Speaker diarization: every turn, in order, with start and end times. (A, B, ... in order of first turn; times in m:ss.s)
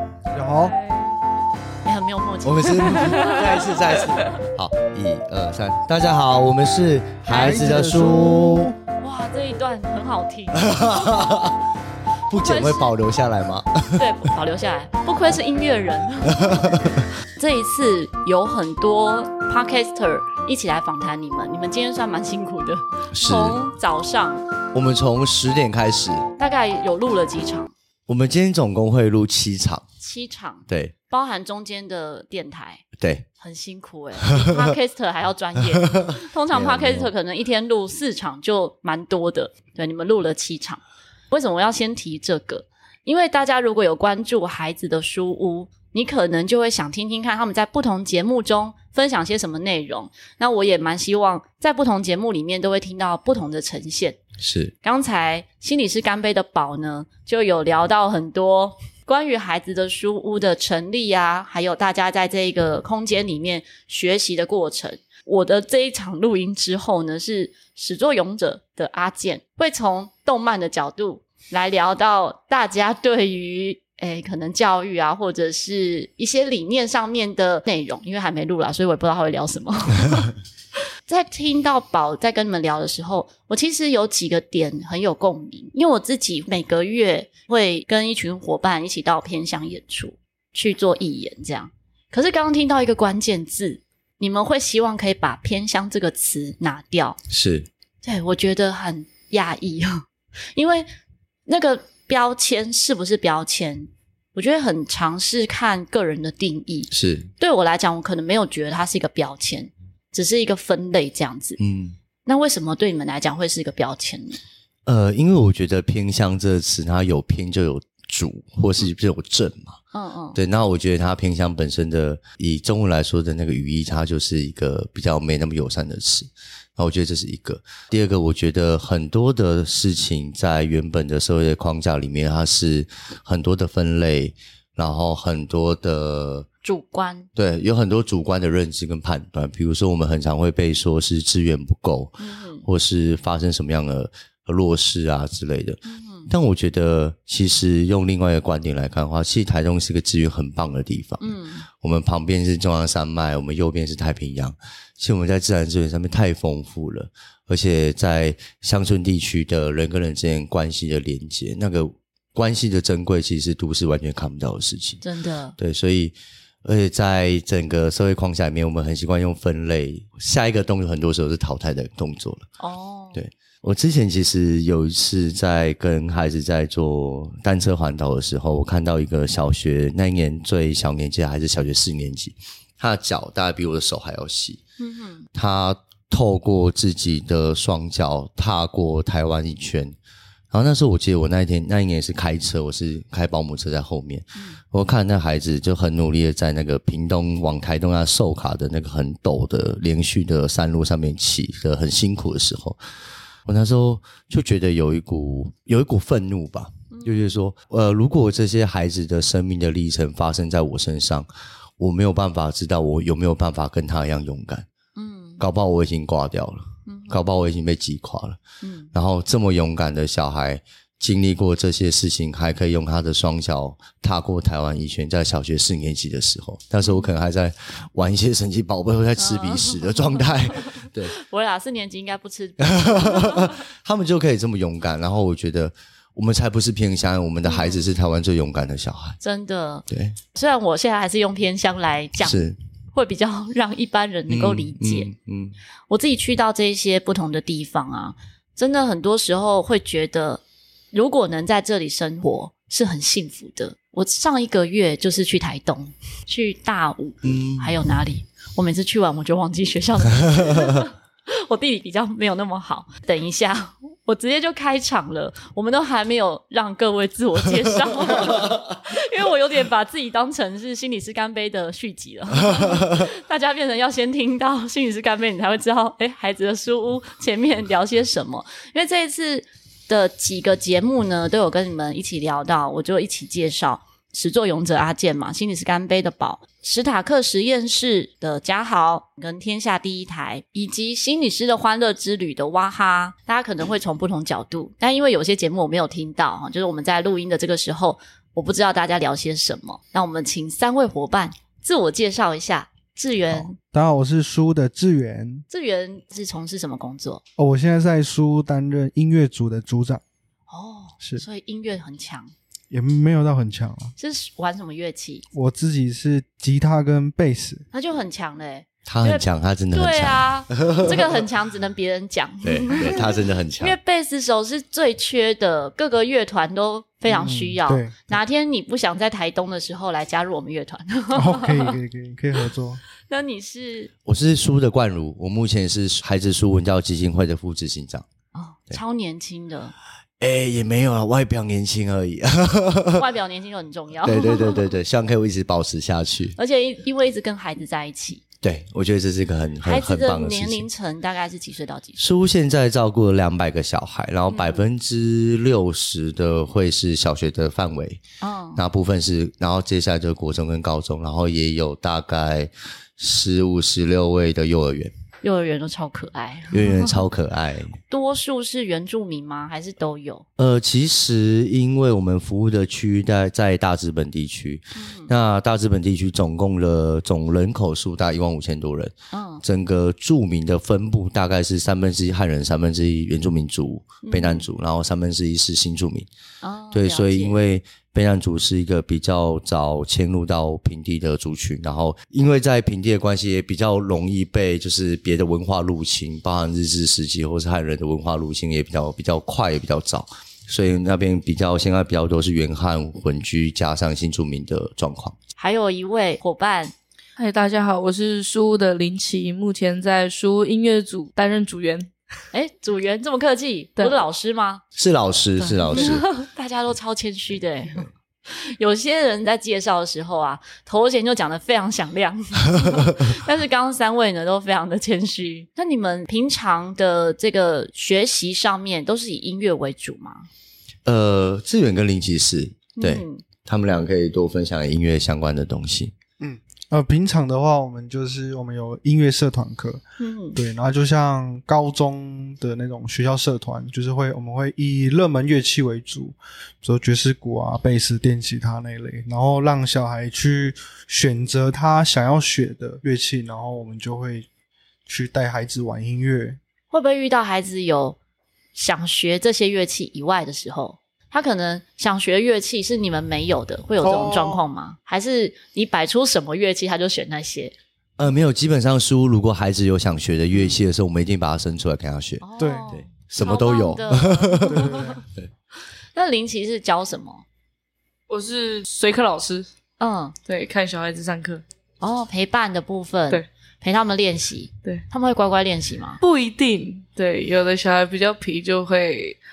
0:00.3-0:00.8 A
0:01.8-0:04.0 B
0:02.4-0:08.7 C
0:07.3-0:07.8 B
0:07.3-0:08.8 A
0:09.0-0:11.1 B
0:10.6-0:11.6 C
0:12.3-0:14.1 C
0:12.4-0:12.9 B
0:14.0-0:16.7 B
0:16.3-0:17.0 C
0:17.4-0:24.4 B
0:23.1-0:23.6 C
0:24.7-0:26.3 C
0:26.4-0:27.7 B
0:28.1-0:29.8 C
0:30.0-0:32.8 B
0:30.7-0:30.9 C
0:33.0-0:33.3 C
0:33.4-0:54.2 B
0:34.4-0:34.8 C
0:35.7-0:37.1 C
0:54.4-0:54.7 C
0:54.8-1:20.3 B
1:21.1-1:37.2 B
1:37.3-1:37.7 C
1:38.0-1:40.0 B
1:40.6-1:40.9 B
1:41.5-1:51.6 B
1:46.9-1:47.3 C
1:51.6-1:52.0 C
1:52.2-1:54.4 B
1:54.9-1:59.8 C
1:59.9-2:00.4 B
2:00.4-2:16.5 C
2:16.6-2:17.3 B
2:17.4-2:45.0 C
2:22.2-2:22.6 B
2:25.9-2:26.3 B
2:31.2-2:31.7 B
2:45.0-2:45.6 B
2:45.6-2:52.5 C
2:52.6-2:53.2 B
2:53.2-3:04.6 C
3:04.8-3:05.3 B
3:05.3-3:10.0 C
3:10.5-3:22.8 C
3:23.5-3:31.3 C
3:26.9-3:27.3 B
3:31.8-3:34.7 C
3:35.0-3:35.4 B
3:35.4-3:38.4 C
3:36.9-3:37.2 B
3:38.6-3:38.9 B
3:38.9-3:51.2 C
3:46.8-3:47.1 B
3:49.2-3:53.6 B
3:52.6-3:59.2 C
3:57.4-3:57.8 B
3:59.2-4:02.4 B
3:59.9-4:00.2 C
4:02.2-4:02.6 C
4:02.9-4:05.1 B
4:04.3-4:05.6 C
4:05.9-4:10.4 B
4:10.9-5:03.6 B
4:17.2-4:17.8 C
5:03.3-5:05.4 A
5:05.5-5:07.2 B
5:07.4-5:10.0 A
5:10.5-5:12.3 B
5:12.7-5:13.9 A
5:14.0-5:15.2 B
5:15.3-5:17.6 A
5:17.7-5:31.8 B
5:18.9-5:21.2 C
5:22.4-5:23.8 C
5:27.1-5:28.2 A
5:31.1-5:32.8 A
5:33.1-5:33.9 B
5:34.1-5:38.1 C
5:38.4-5:39.7 B
5:40.2-5:43.1 C
5:43.0-5:44.7 B
5:44.0-5:46.4 C
5:46.4-5:48.2 B
5:48.4-5:50.7 C
5:49.6-5:52.0 B
5:52.0-5:58.0 C
5:54.3-5:54.6 B
5:58.2-5:58.6 B
5:58.6-6:04.9 C
6:05.2-6:07.1 B
6:06.5-6:07.8 C
6:07.9-6:10.2 B
6:10.4-6:26.1 C
6:14.8-6:15.1 B
6:19.1-6:19.4 B
6:24.0-6:24.5 B
6:26.4-6:27.4 B
6:26.7-6:45.2 C
6:45.4-6:46.7 B
6:47.2-6:51.9 D
6:52.3-6:54.6 B
6:54.8-6:56.1 C
6:55.6-7:10.3 B
7:02.6-7:03.1 C
7:10.9-7:15.9 C
7:12.8-7:13.2 B
7:16.2-7:19.8 A
7:20.0-7:20.4 B
7:20.4-7:34.3 A
7:34.9-7:36.4 A
7:36.7-7:38.0 B
7:38.6-7:47.5 B
7:43.8-7:44.4 A
7:48.0-7:55.3 C
7:50.3-7:50.6 A
7:52.2-7:55.0 B
7:52.4-7:52.7 A
7:54.4-7:55.0 A
7:56.0-7:57.2 B
7:58.1-7:59.5 D
7:59.8-8:00.2 B
8:00.3-8:01.4 D
8:01.8-8:06.0 B
8:06.0-8:09.2 D